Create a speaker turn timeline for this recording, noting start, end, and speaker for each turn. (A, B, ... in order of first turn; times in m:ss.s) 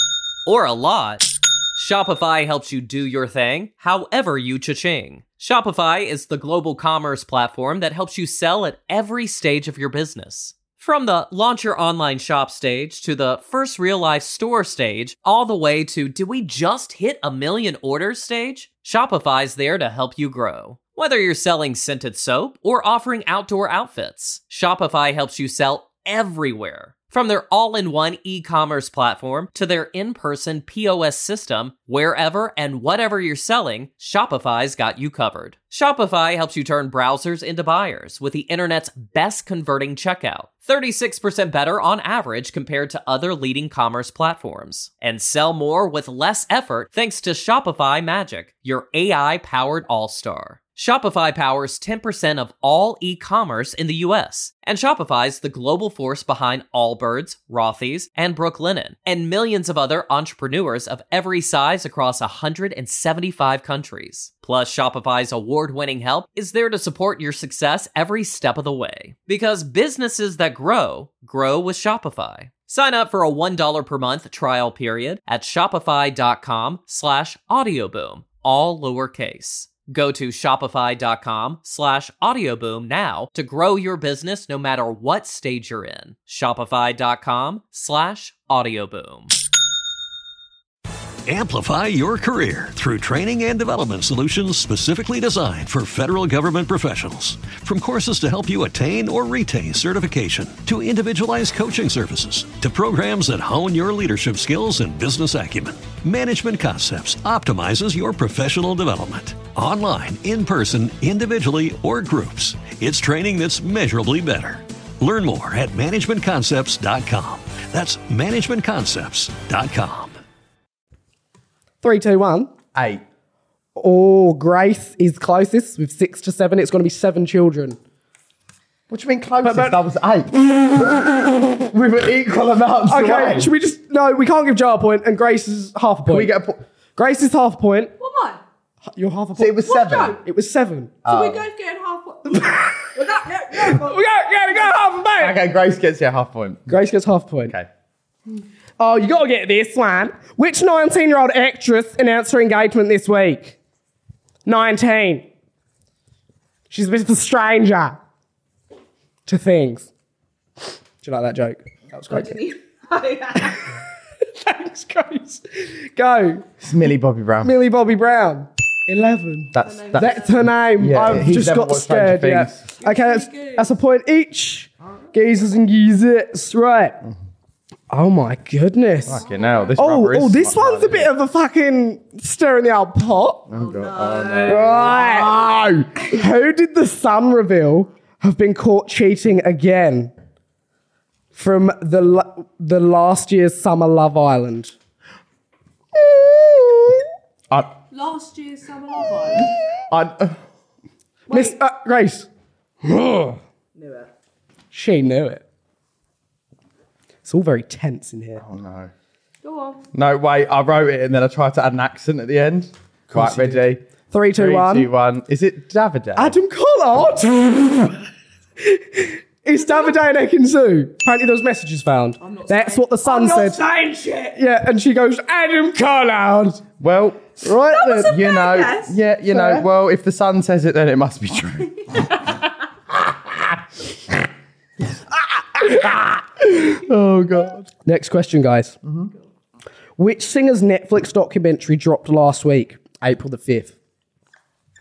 0:00.4-1:29.3 A
1:31.3-2:00.2 B
2:01.8-2:02.5 C
2:02.7-2:03.0 D
2:03.8-2:07.8 C
2:08.9-2:13.5 D
2:09.4-2:09.8 C
2:12.9-2:16.3 C
2:16.1-2:16.6 D
2:17.0-2:17.9 C
2:18.0-2:18.4 E
2:18.9-2:21.0 C
2:19.4-2:20.2 D
2:19.6-2:20.2 E
2:21.0-2:24.1 E
2:21.1-2:21.5 D
2:23.6-2:25.4 C
2:25.2-2:26.8 D
2:26.7-2:27.6 C
2:28.8-2:33.6 C
2:34.4-2:35.3 C
2:36.7-2:38.0 C
2:39.3-2:39.9 C
2:41.0-2:42.5 C
2:42.1-2:43.6 E
2:44.4-2:46.5 C
2:46.6-2:47.5 D
2:47.4-2:57.0 C
2:49.5-2:52.6 D
2:49.6-2:50.5 E
2:52.8-2:53.8 E
2:54.8-2:55.1 E
2:57.9-3:03.5 C
2:59.1-3:01.1 D
2:59.1-2:59.7 E
3:03.5-3:06.0 D
3:03.5-3:04.9 E
3:04.5-3:05.4 C
3:06.0-3:10.1 C
3:11.3-3:14.7 C
3:17.9-3:19.5 E
3:19.9-3:20.4 D
3:21.3-3:21.6 E
3:21.3-3:22.3 C
3:22.8-3:23.4 C
3:23.8-3:24.1 E
3:24.7-3:25.4 C
3:27.2-3:28.4 C
3:28.4-3:28.9 D
3:29.4-3:29.8 E
3:29.9-3:36.4 D
3:33.1-3:34.9 C
3:36.2-3:38.1 C
3:38.6-3:43.6 C
3:42.2-3:44.4 E
3:44.3-3:46.6 C
3:46.8-3:47.4 D
3:47.4-3:48.2 C
3:47.7-3:49.0 E
3:48.0-3:52.2 D
3:49.3-3:49.6 C
3:52.9-3:53.6 D
3:55.6-3:57.7 D
3:57.8-3:58.8 C
3:58.8-3:59.1 D
4:00.0-4:03.7 C